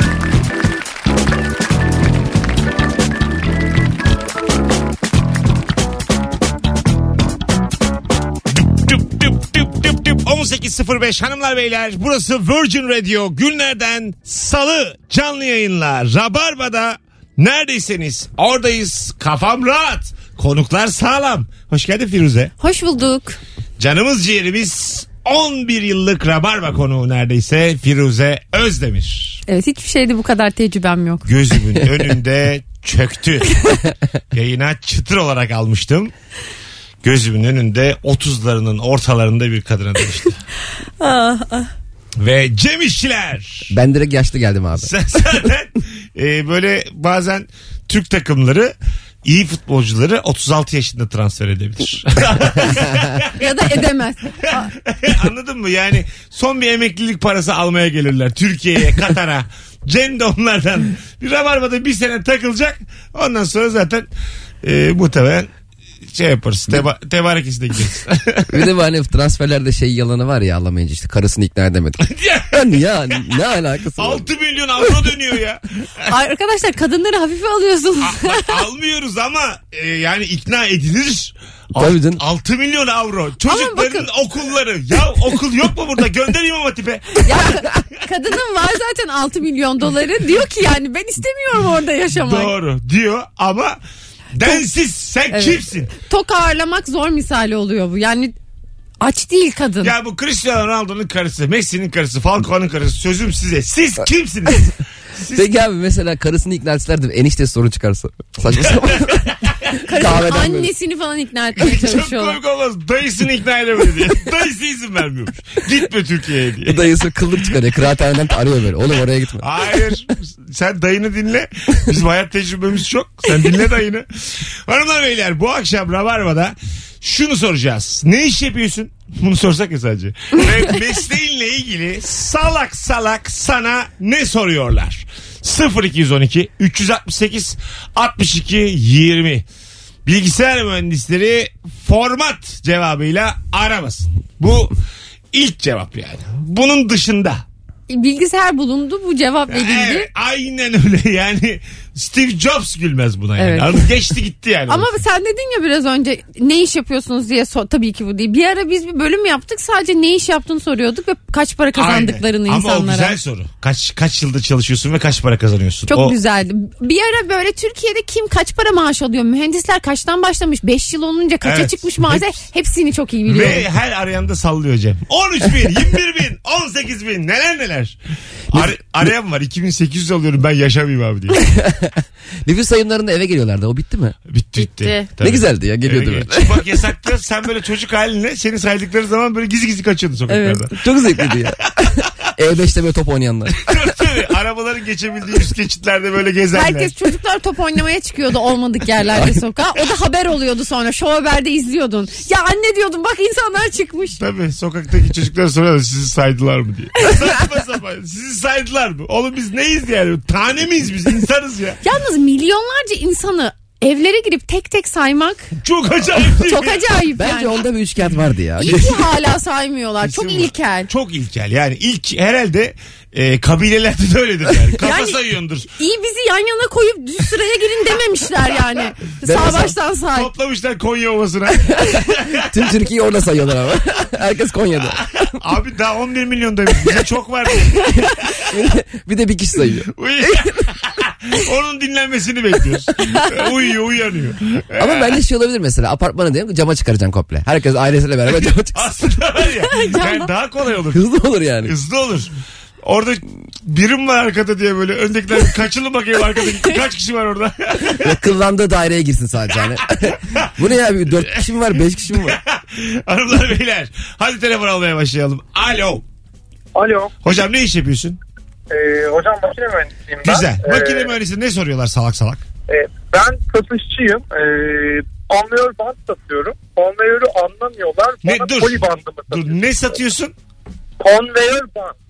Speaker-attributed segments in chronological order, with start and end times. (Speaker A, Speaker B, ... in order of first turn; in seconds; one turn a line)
Speaker A: 8.5-22.5
Speaker B: 22.6-23.4
Speaker A: 23.8-29.4
Speaker B: 29.5-31.3
Speaker A: 31.2-33.6
Speaker A: 34.3-36.1
Speaker A: 37.0-40.4
Speaker B: 41.0-41.7
Speaker A: 42.2-43.7
Speaker C: 43.7-44.9
Speaker A: 44.8-48.7
Speaker A: 49.2-53.5
Speaker B: 53.3-54.7
Speaker A: 54.9-64.1
Speaker A: 64.6-65.5
Speaker A: 66.1-68.6
Speaker C: 68.5-74.3
Speaker A: 72.0-72.8
Speaker A: 74.0-76.1
Speaker B: 76.1-78.6
Speaker A: 78.0-87.2
Speaker C: 81.8-82.2
Speaker B: 83.5-84.1
Speaker B: 87.2-92.5
Speaker A: 92.1-93.8
Speaker A: 94.3-95.9
Speaker B: 95.3-98.3
Speaker B: 99.0-99.9
Speaker A: 99.8-105.5
Speaker C: 105.3-110.7
Speaker A: 108.5-109.8
Speaker B: 109.7-112.4
Speaker A: 111.6-116.9
Speaker C: 116.7-119.5
Speaker A: 119.4-139.4
Speaker A: 140.1-144.7
Speaker A: 145.3-147.4
Speaker B: 147.9-150.1
Speaker A: 149.5-154.9
Speaker B: 153.4-153.8
Speaker B: 154.7-163.2
Speaker A: 161.7-166.2
Speaker B: 165.9-173.6
Speaker A: 171.4-172.4
Speaker A: 173.2-177.9
Speaker A: 178.5-181.4
Speaker C: 181.5-184.2
Speaker A: 184.3-191.4
Speaker B: 184.6-185.1
Speaker C: 185.2-186.6
Speaker B: 190.3-190.7
Speaker C: 190.8-193.9
Speaker A: 193.5-196.9
Speaker B: 196.5-204.2
Speaker A: 204.2-211.8
Speaker B: 211.8-215.5
Speaker A: 215.6-216.8
Speaker B: 216.4-217.6
Speaker C: 217.2-219.0
Speaker B: 218.6-220.9
Speaker A: 220.0-225.7
Speaker B: 224.8-225.2
Speaker B: 225.8-230.3
Speaker C: 229.2-229.7
Speaker A: 230.1-232.4
Speaker C: 232.3-235.1
Speaker A: 235.0-238.3
Speaker C: 238.5-240.4
Speaker A: 239.9-245.2
Speaker C: 244.8-248.8
Speaker A: 248.4-251.0
Speaker B: 249.7-250.3
Speaker C: 250.9-251.7
Speaker A: 251.6-252.3
Speaker A: 252.8-258.1
Speaker C: 258.0-262.4
Speaker A: 260.1-260.5
Speaker A: 262.1-266.0
Speaker D: 266.7-267.1
Speaker A: 267.2-268.2
Speaker D: 268.7-271.1
Speaker A: 270.2-272.4
Speaker D: 272.7-279.6
Speaker A: 278.2-280.3
Speaker D: 281.0-281.9